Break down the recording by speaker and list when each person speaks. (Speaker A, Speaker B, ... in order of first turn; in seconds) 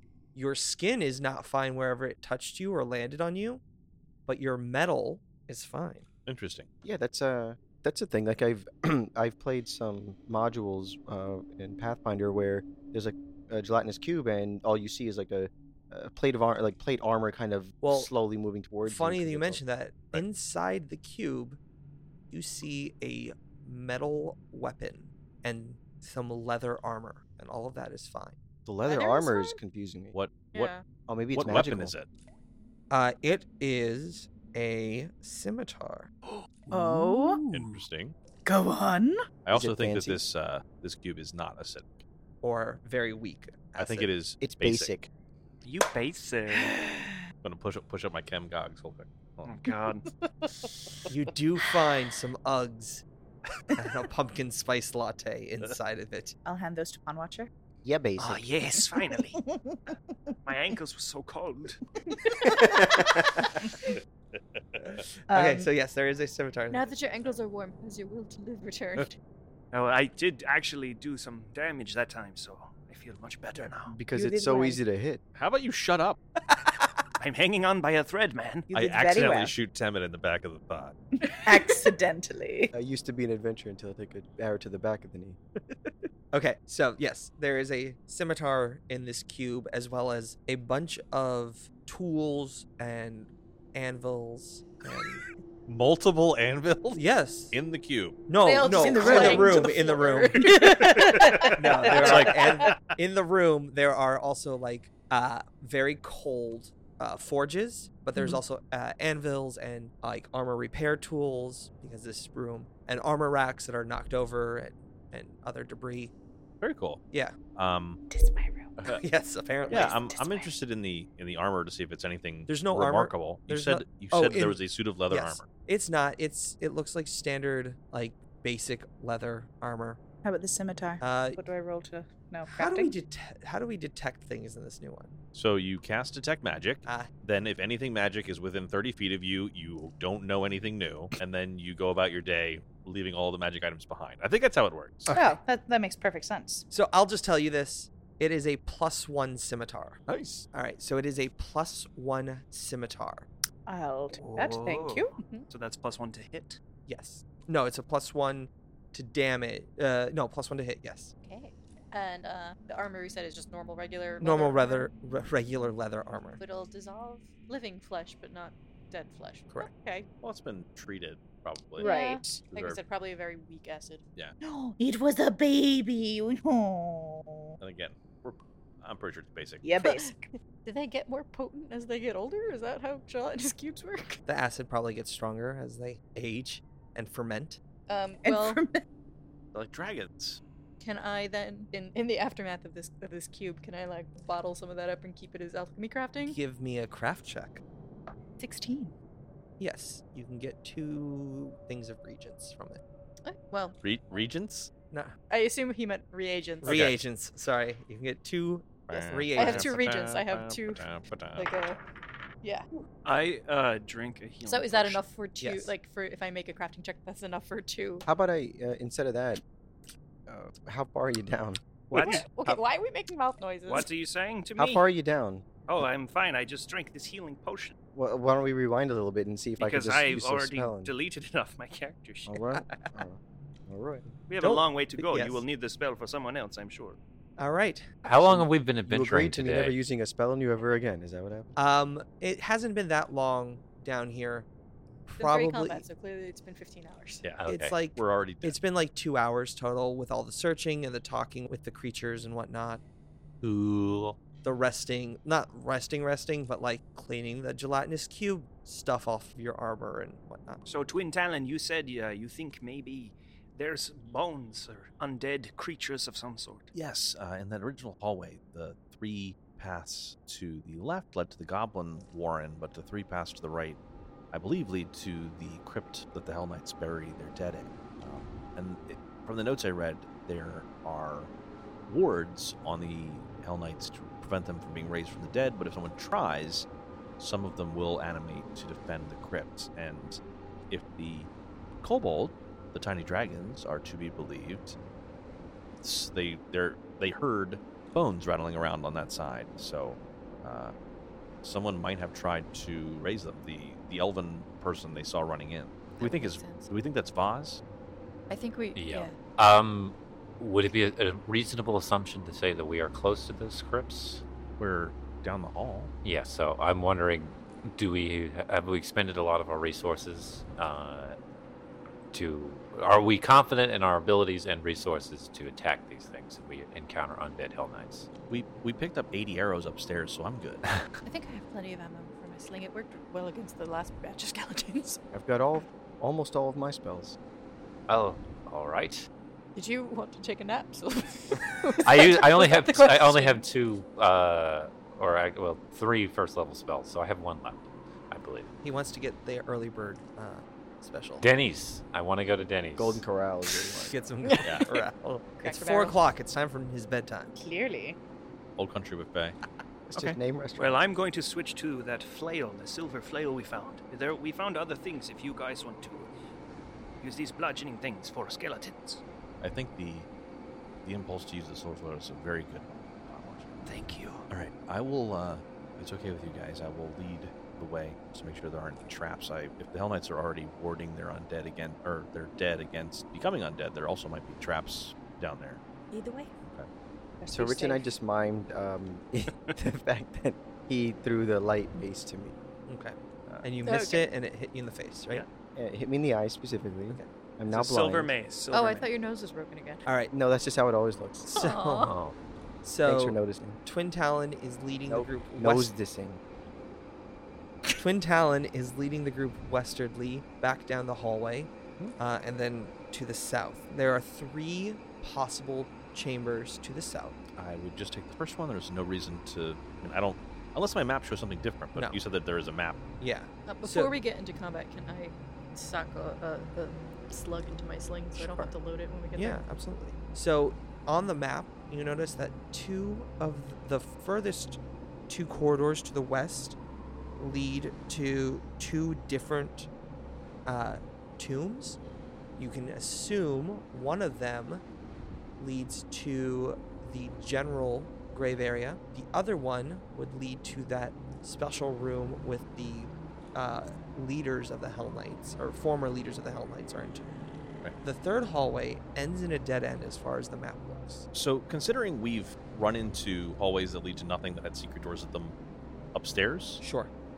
Speaker A: 0.3-3.6, 4.3-6.1, 17.8-18.1, 18.8-21.6, 22.3-28.4, 32.9-36.1, 42.4-44.1, 51.1-53.0, 53.8-56.4, 64.9-66.9, 86.3-95.2, 96.9-97.6, 98.3-100.6, 101.5-116.1, 118.9-119.9, 122.5-130.0, 131.0-131.4, 132.5-135.2, 136.8-137.1, 145.1-145.3, 146.7-150.0, 150.5-153.3, 156.9-161.1, 164.2-166.4, 184.3-187.6, 196.3-197.6, 199.6-202.8, 206.6-209.8, 215.4-215.7, 234.4-235.4, 237.4-238.0, 241.6-244.5, 245.1-245.8, 247.5-252.8, 254.4-260.6, 348.6-351.2, 353.8-357.3, 392.7-395.2, 399.9-400.1, 401.2-401.9, 402.6-405.7, 407.7-417.2, 423.0-423.9, 428.1-428.5, 429.1-436.6, 437.2-439.7, 440.5-441.8, 442.4-444.6, 445.4-457.2, 457.8-461.1, 466.6-466.9
Speaker B: 6.3-6.7, 30.1-30.8, 31.3-32.1, 37.5-38.2, 39.5-42.0, 43.8-45.0, 47.4-49.6, 64.8-65.0, 75.3-76.2, 78.7-81.0, 95.7-98.2, 101.9-102.8, 116.6-117.0, 117.5-118.0, 119.7-125.5, 135.3-145.2, 150.1-150.5, 170.2-171.9, 172.5-172.8, 177.6-179.7, 189.5-190.4, 203.8-204.7, 206.7-207.0, 208.9-211.5, 248.0-248.6, 266.7-273.8, 274.3-281.3, 281.9-286.7, 287.2-291.3, 291.8-294.8, 295.8-300.7, 301.4-307.6, 314.6-315.9, 328.3-330.7, 354.4-354.7, 358.6-359.4, 369.4-370.1, 370.8-373.5, 374.3-385.6, 417.4-422.8, 461.1-465.4, 465.9-466.6
Speaker C: 6.8-19.6, 28.7-30.2, 31.1-31.9, 39.5-40.2, 44.4-45.1, 57.8-58.5, 73.9-75.2, 82.7-85.4, 218.1-219.4, 220.3-222.2, 224.6-225.4, 227.9-230.9, 232.3-234.1, 238.8-241.6, 335.1-337.2, 352.8-354.4, 359.9-360.9, 387.3-392.4, 395.6-398.1, 400.1-401.3, 402.9-403.6, 404.9-406.2
Speaker D: 28.9-29.6, 30.5-30.8, 66.7-69.2, 98.4-101.5, 155.1-155.5, 161.2-164.9, 166.4-170.1, 171.8-174.0, 179.8-184.2, 187.9-188.6, 190.8-196.4, 203.2-203.8, 205.3-206.9, 209.3-211.8, 214.5-218.1, 221.9-223.9, 245.2-247.3, 306.0-306.7, 308.3-309.2, 331.0-335.0, 339.6-343.4, 355.4-356.0, 385.9-386.3, 393.6-394.1, 398.5-399.9, 401.3-401.9, 423.5-429.4
Speaker E: 36.2-37.8, 45.6-46.8, 49.5-50.1, 58.2-59.4, 60.5-61.8, 69.7-74.0, 77.2-78.7, 154.1-156.6, 213.1-215.0, 223.7-224.9, 225.7-227.8, 229.6-232.4, 234.3-237.0, 260.7-266.7, 360.6-366.1, 367.0-369.0, 373.7-374.3, 397.5-398.9
Speaker F: 36.7-37.4, 38.5-39.2, 46.5-47.2, 56.5-57.5, 58.9-60.8, 62.1-64.0, 65.3-65.7, 74.1-74.8, 78.7-79.5, 81.2-82.7, 98.6-102.3, 118.1-118.7, 119.7-120.5, 130.2-132.9, 145.1-146.7, 153.7-155.1, 171.8-172.4, 174.4-177.6, 179.6-180.2, 188.2-188.8, 198.4-198.9, 357.4-358.0, 387.2-387.9
Speaker G: 238.0-239.8, 247.4-247.8, 253.4-254.2, 308.8-314.2, 316.0-321.2, 322.1-328.1, 337.9-339.1, 341.9-348.5, 351.2-353.0, 401.8-402.2